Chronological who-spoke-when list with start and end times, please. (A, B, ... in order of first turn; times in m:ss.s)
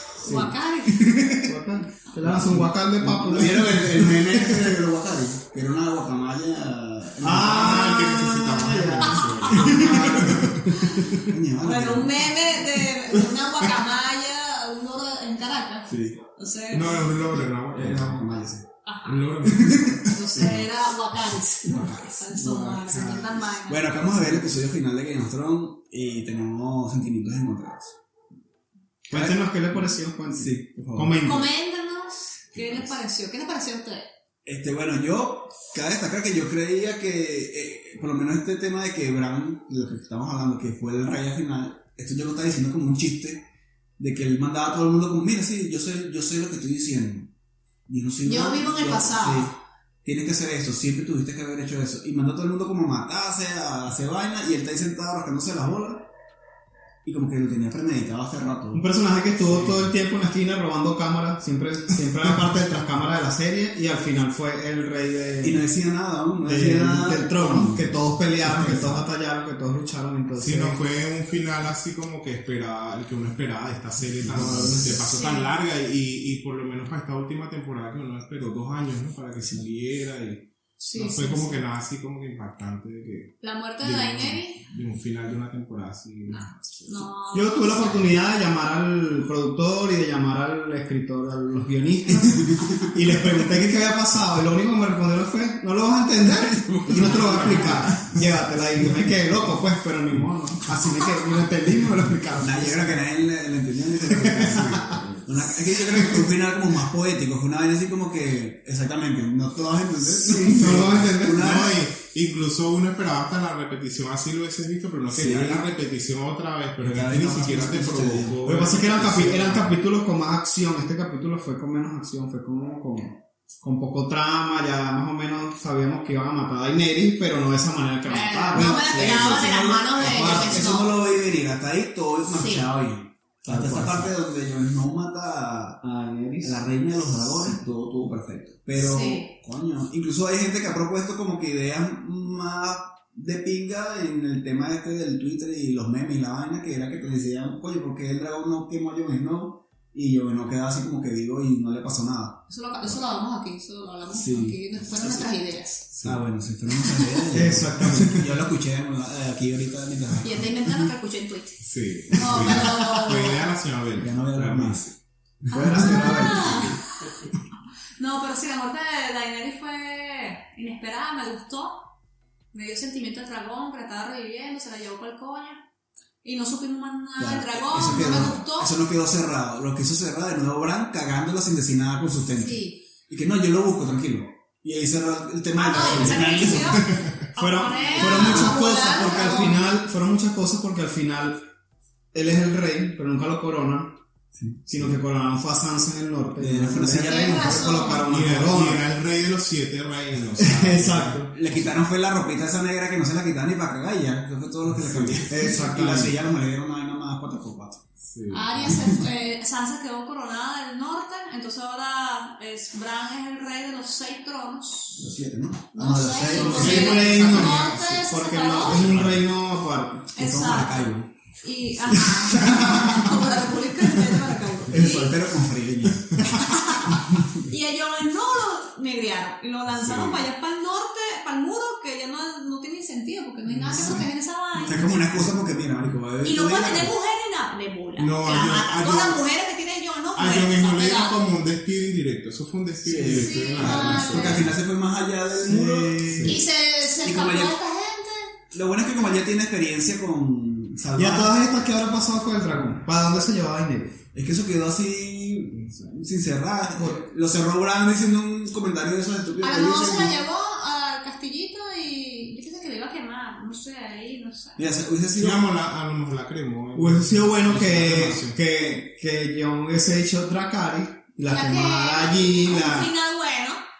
0:00.2-0:01.2 A
0:00.2-0:00.6 B
0:00.9-0:01.5 C
0:01.4-0:04.7 B
0:02.2-0:07.9 C
0:07.2-0:11.2 B
0:07.4-0:11.0 D
0:09.2-0:09.8 A
0:09.7-0:10.0 C
0:11.2-0:12.6 C
0:11.6-0:17.1 A
0:15.9-0:16.2 C
0:16.7-0:18.3 D
0:17.7-0:18.7 C
0:18.8-0:19.3 A
0:19.0-0:20.6 D
0:19.4-0:20.0 C
0:20.0-0:23.9 A
0:21.7-0:28.0 C
0:29.1-0:31.5 B
0:29.1-0:29.8 C
0:30.3-0:31.2 C
0:31.2-0:34.1 A
0:32.5-0:32.9 D
0:34.4-0:43.4 C
0:44.0-0:47.3 C
0:47.9-0:56.1 C
0:48.2-0:49.5 A
0:57.0-0:58.9 C
0:58.7-1:05.6 B
0:59.5-0:59.8 D
1:05.4-1:09.0 C
1:06.4-1:10.8 B
1:10.4-1:27.1 D
1:14.2-1:15.1 C
1:14.4-1:14.8 B
1:15.0-1:15.5 A
1:20.8-1:21.6 A
1:23.4-1:24.6 A
1:26.3-1:28.1 A
1:27.3-1:43.0 B
1:32.1-1:33.0 C
1:36.3-1:38.1 C
1:37.0-1:38.0 D
1:42.4-1:51.8 C
1:44.1-1:45.0 B
1:50.0-1:51.6 B
1:50.6-1:59.7 D
1:55.1-1:55.6 C
1:56.8-1:58.6 C
1:58.4-2:09.6 B
2:08.1-2:11.0 A
2:08.5-2:15.8 C
2:12.3-2:12.7 A
2:13.4-2:14.1 B
2:15.8-2:16.7 B
2:16.4-2:32.4 C
2:18.8-2:19.3 A
2:32.5-2:35.9 A
2:34.1-2:35.3 C
2:35.9-2:36.3 D
2:36.0-2:40.8 C
2:36.9-2:37.2 A
2:37.3-2:38.4 B
2:40.2-2:43.5 A
2:41.6-2:45.0 D
2:44.0-2:44.9 C
2:45.5-2:46.8 A
2:45.5-2:46.7 B
2:45.6-2:46.1 C
2:46.2-2:46.8 D
2:48.0-2:51.8 A
2:52.5-2:55.6 A
2:56.2-2:58.7 A
2:57.2-3:07.0 C
3:02.4-3:02.8 A
3:05.5-3:09.7 A
3:06.7-3:07.2 D
3:07.4-3:11.5 B
3:07.9-3:08.5 C
3:12.1-3:14.0 B
3:14.3-3:14.9 C
3:14.7-3:18.8 B
3:16.4-3:17.7 C
3:16.9-3:18.1 A
3:18.0-3:21.3 D
3:20.4-3:21.3 B
3:21.3-3:27.8 C
3:24.7-3:25.5 D
3:25.3-3:26.2 B
3:28.0-3:28.9 D
3:28.3-3:35.1 A
3:28.6-3:29.0 C
3:35.0-3:37.1 C
3:35.7-3:39.0 A
3:36.3-3:40.3 B
3:36.4-3:38.0 D
3:38.6-3:39.3 D
3:40.2-3:40.9 A
3:40.2-3:41.1 C
3:41.4-3:45.2 A
3:42.3-3:43.0 B
3:44.7-3:47.5 C
3:46.4-3:55.1 A
3:49.7-3:50.3 D
3:53.5-3:56.9 C
3:53.7-3:54.0 D
3:56.2-4:01.2 A
3:58.0-3:59.2 D
4:00.2-4:04.6 D
4:02.8-4:06.4 C
4:03.1-4:04.5 A
4:05.4-4:06.4 B
4:06.1-4:06.4 D
4:06.3-4:08.3 A
4:07.0-4:07.6 C
4:08.5-4:11.4 C
4:11.0-4:14.0 B
4:14.1-4:20.2 C
4:16.8-4:17.0 B
4:19.4-4:24.6 A
4:24.6-4:25.5 C
4:25.2-4:28.4 D
4:26.8-4:32.9 B
4:31.2-4:33.6 A